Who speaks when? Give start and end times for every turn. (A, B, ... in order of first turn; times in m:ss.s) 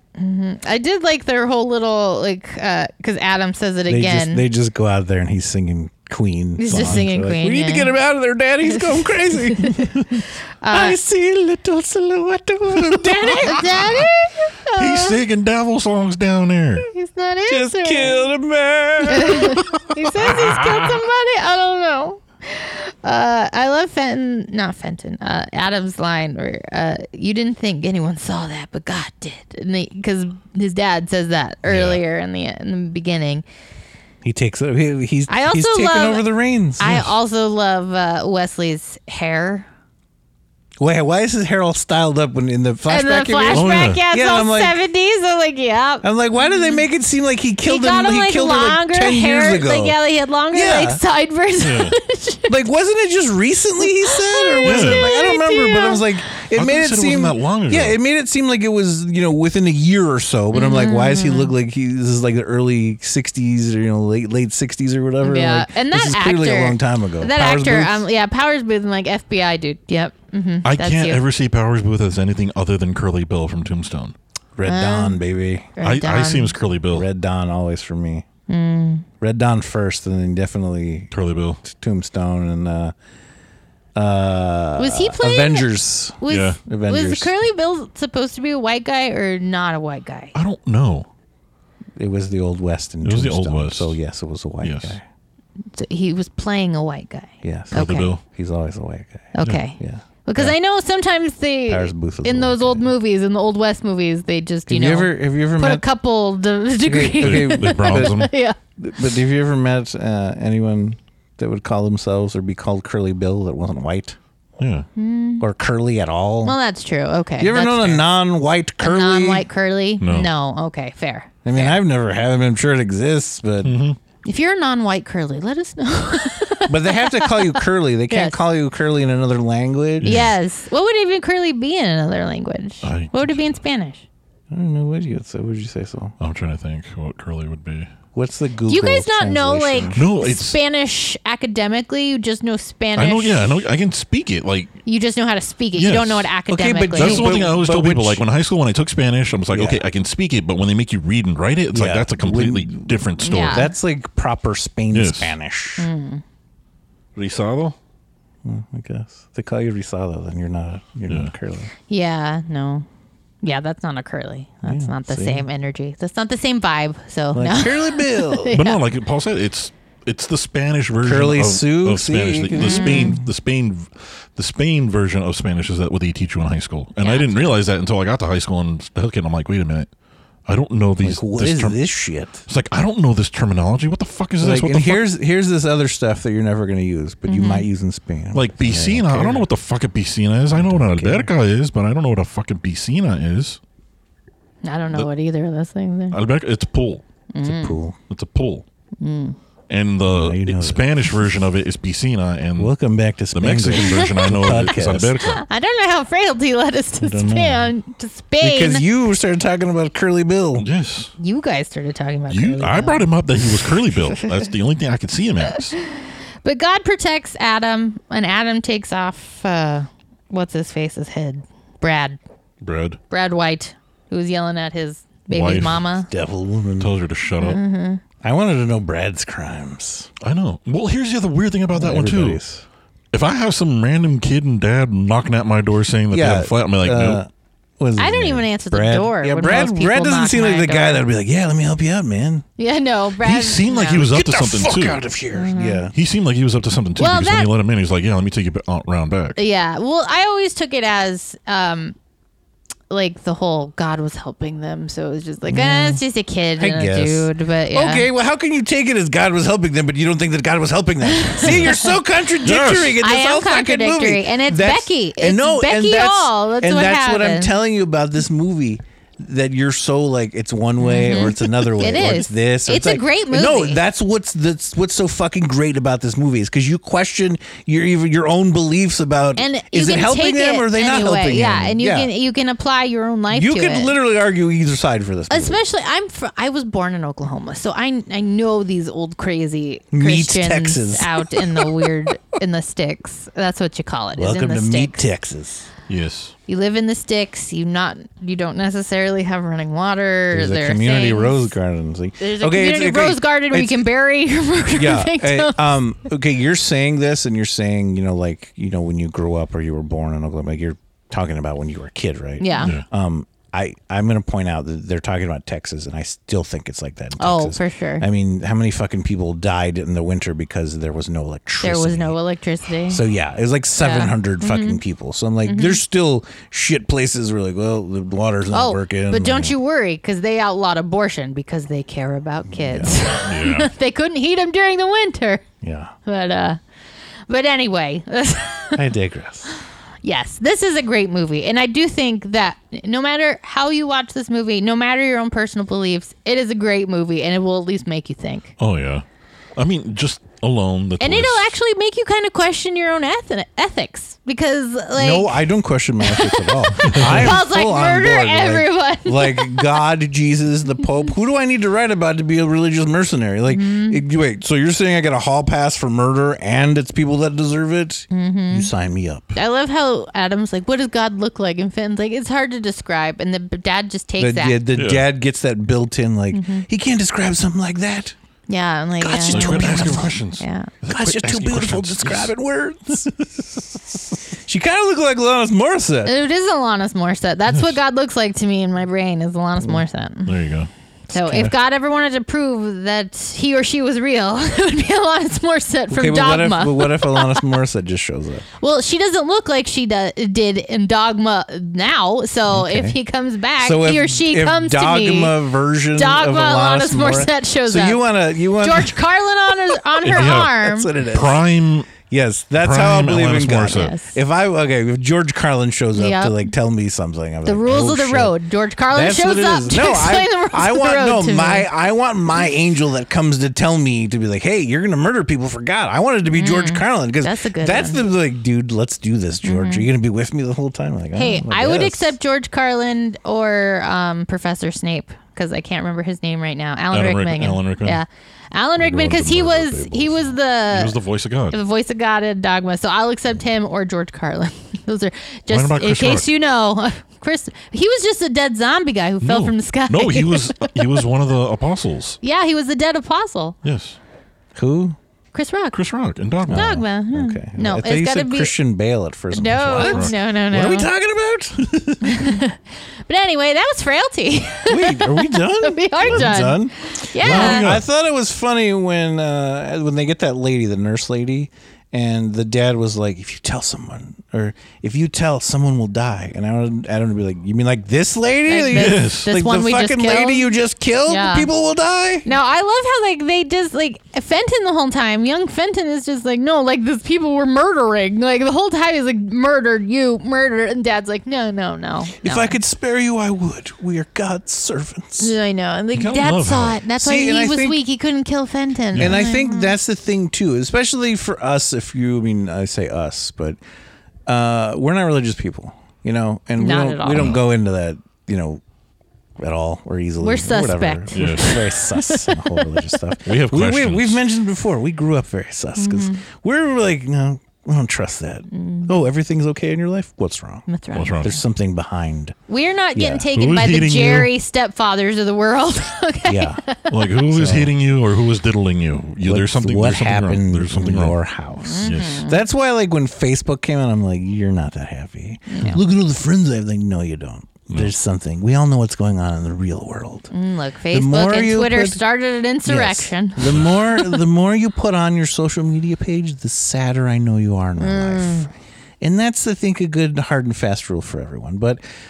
0:00.2-0:04.4 A
0:03.9-0:14.0 B
0:06.6-0:07.9 A
0:06.7-0:07.1 C
0:08.7-0:10.0 A
0:10.6-0:11.0 A
0:12.9-0:15.2 A
0:14.8-0:16.9 C
0:16.9-0:18.3 A
0:17.5-0:21.0 B
0:19.1-0:33.4 A
0:31.6-0:32.0 C
0:34.2-0:36.9 B
0:35.3-0:39.7 A
0:40.8-0:44.8 B
0:42.9-0:46.8 A
0:43.5-0:44.0 C
0:46.0-0:50.0 B
0:47.6-0:52.6 A
0:50.5-0:51.0 B
0:51.6-0:52.0 C
0:52.5-1:08.0 B
0:53.9-0:56.1 A
0:54.6-0:55.1 C
0:56.5-0:58.0 C
1:00.5-1:01.5 A
1:05.2-1:11.2 A
1:10.6-1:14.2 C
1:14.6-1:15.7 B
1:14.6-1:15.2 A
1:15.8-1:16.6 A
1:15.8-1:17.1 C
1:16.9-1:18.2 B
1:18.5-1:19.1 A
1:19.2-1:21.1 B
1:21.1-1:21.6 C
1:21.6-1:22.9 B
1:24.0-1:27.3 B
1:24.8-1:30.4 A
1:26.3-1:26.6 C
1:30.4-1:31.1 C
1:32.0-1:35.0 B
1:33.0-1:34.0 C
1:34.6-1:35.0 C
1:35.7-1:38.1 A
1:37.4-1:40.6 B
1:37.7-1:38.2 C
1:39.4-1:48.6 A
1:41.7-1:42.9 B
1:44.7-1:45.8 B
1:46.8-1:54.2 B
1:47.2-1:48.3 C
1:54.6-1:54.9 C
1:55.0-1:55.4 A
1:55.4-1:56.6 B
1:56.4-1:58.1 A
1:57.4-1:59.4 B
1:58.8-2:01.8 A
2:00.0-2:00.3 C
2:01.4-2:03.8 B
2:03.6-2:04.0 C
2:04.2-2:08.4 A
2:06.7-2:10.3 B
2:10.0-2:10.3 C
2:10.0-2:14.0 A
2:12.8-2:13.6 C
2:14.5-2:16.2 B
2:16.2-2:17.9 C
2:18.1-2:20.0 B
2:18.7-2:23.6 A
2:20.0-2:20.6 C
2:23.0-2:24.8 C
2:24.8-2:27.5 A
2:25.8-2:26.3 C
2:26.5-2:28.2 B
2:27.0-2:33.7 C
2:29.5-2:29.8 B
2:31.7-2:35.9 B
2:33.2-2:33.7 A
2:34.9-2:35.4 C
2:35.8-2:36.2 A
2:37.2-2:37.8 C
2:38.4-2:41.7 B
2:41.9-2:42.9 A
2:43.4-2:48.8 A
2:44.6-2:45.5 B
2:47.3-2:48.6 B
2:48.5-2:59.9 C
2:51.0-2:53.2 B
2:52.6-2:53.2 A
2:57.0-2:57.5 A
3:00.5-3:01.8 C
3:01.0-3:02.4 B
3:02.5-3:05.1 C
3:04.4-3:09.5 B
3:07.3-3:07.7 A
3:08.3-3:13.6 C
3:10.5-3:11.3 B
3:14.6-3:16.2 A
3:16.1-3:17.0 C
3:17.3-3:17.8 A
3:17.4-3:18.0 B
3:18.1-3:18.6 C
3:19.0-3:19.4 A
3:19.7-3:22.7 C
3:20.1-3:21.2 B
3:22.6-3:25.2 B
3:23.3-3:25.4 C
3:23.8-3:24.3 A
3:25.2-3:28.9 A
3:27.0-3:27.7 B
3:28.4-3:30.7 B
3:30.6-3:31.1 C
3:31.2-3:33.1 A
3:32.3-3:35.8 C
3:35.5-3:42.2 A
3:42.6-3:43.0 C
3:43.1-3:46.1 A
3:45.3-3:45.8 C
3:45.5-3:46.9 B
3:46.8-3:47.6 C
3:47.4-3:48.0 A
3:48.2-3:50.1 B
3:50.2-3:52.4 C
3:51.7-3:52.6 B
3:53.1-3:57.2 C
3:56.1-4:02.4 B
3:58.0-4:01.0 A
4:02.6-4:04.0 A
4:03.2-4:05.1 C
4:03.9-4:05.9 B
4:05.3-4:05.9 A
4:05.9-4:09.4 C
4:07.0-4:07.5 A
4:09.4-4:12.0 A
4:12.9-4:18.1 A
4:15.5-4:16.0 B
4:16.6-4:42.1 B
4:21.1-4:22.0 A
4:21.5-4:21.9 C
4:22.4-4:23.0 C
4:23.0-4:27.6 A
4:30.8-4:33.8 A
4:39.4-4:44.0 A
4:43.3-4:45.6 B
4:45.3-4:55.0 A
4:49.9-4:51.9 B
4:54.2-4:55.7 B
4:55.9-4:56.3 C
4:56.5-5:01.5 A
5:00.3-5:03.9 B
5:02.2-5:05.6 A
5:04.8-5:22.2 B
5:12.4-5:12.7 A
5:12.6-5:12.8 C
5:17.2-5:18.0 A
5:21.6-5:23.0 A
5:22.9-5:29.6 B
5:23.8-5:24.8 A
5:25.5-5:25.8 A
5:28.5-5:35.4 A
5:32.5-5:33.0 B
5:33.1-5:33.7 C
5:35.6-5:35.9 B
5:36.0-5:36.6 A
5:37.3-5:38.8 A
5:38.8-5:39.5 B
5:40.0-5:48.5 A
5:48.6-5:49.0 C
5:49.6-5:51.5 C
5:51.0-5:55.4 A
5:55.0-6:09.4 B
5:56.1-5:59.7 A
5:56.9-5:57.4 C
6:03.5-6:04.0 A
6:08.1-6:08.7 A
6:09.4-6:14.6 A
6:14.2-6:18.2 B
6:14.8-6:15.1 C
6:16.3-6:16.7 A
6:18.5-6:20.7 A
6:19.0-6:20.2 B
6:19.3-6:22.3 C
6:20.9-6:23.1 B
6:24.5-6:26.1 B
6:26.0-6:30.4 A
6:30.3-6:30.7 C
6:31.1-6:37.4 A
6:31.1-6:31.5 B
6:35.9-6:38.5 B
6:38.6-6:45.4 A
6:42.5-6:43.0 B
6:43.6-6:49.0 B
6:46.0-6:48.0 A
6:48.6-6:50.9 A
6:50.0-6:51.9 C
6:50.1-6:51.4 B
6:52.0-6:58.4 B
6:52.6-6:54.0 C
6:53.7-6:54.1 A
6:56.0-6:56.5 A
6:57.5-7:01.7 A
6:58.9-7:12.2 B
7:06.3-7:08.0 A
7:09.4-7:09.9 A
7:11.2-7:21.0 A
7:16.9-7:18.0 C
7:18.8-7:21.6 C
7:21.5-7:31.0 A
7:25.5-7:26.3 C
7:29.2-7:32.2 C
7:32.2-7:33.6 A
7:33.6-7:34.0 C
7:34.6-7:35.0 B
7:35.3-7:35.8 A
7:35.7-7:36.8 C
7:36.5-7:42.0 B
7:36.5-7:38.5 A
7:39.3-7:40.9 A
7:39.8-7:40.1 C
7:41.6-7:42.0 C
7:42.0-7:47.8 A
7:44.7-8:02.3 B
7:46.1-7:46.4 C
7:47.2-7:47.9 C
7:58.5-8:00.5 A
7:58.7-7:59.3 C
8:01.1-8:01.5 A
8:02.2-8:12.6 A
8:12.2-8:15.3 B
8:15.2-8:19.7 A
8:15.9-8:16.8 C
8:17.0-8:17.8 B
8:18.9-8:19.3 C
8:19.0-8:23.6 B
8:24.3-8:28.6 B
8:26.6-8:27.4 A
8:27.1-8:27.4 C
8:29.4-8:40.7 B
8:30.2-8:32.6 A
8:31.1-8:31.5 C
8:33.2-8:34.2 C
8:35.8-8:36.2 A
8:38.5-8:38.9 A
8:40.7-8:41.3 A
8:40.9-8:41.4 C
8:41.2-8:42.4 B
8:42.5-8:46.9 A
8:43.0-8:43.3 B
8:43.3-8:44.3 C
8:46.3-8:46.6 B
8:46.9-8:51.2 C
8:47.3-8:47.7 B
8:49.2-9:00.3 B
8:51.6-8:52.4 A
8:51.8-8:52.2 C
8:55.5-8:55.8 A
9:00.3-9:04.2 A
9:00.9-9:02.0 B
9:02.6-9:08.5 B
9:07.8-9:08.5 A
9:09.0-9:11.8 B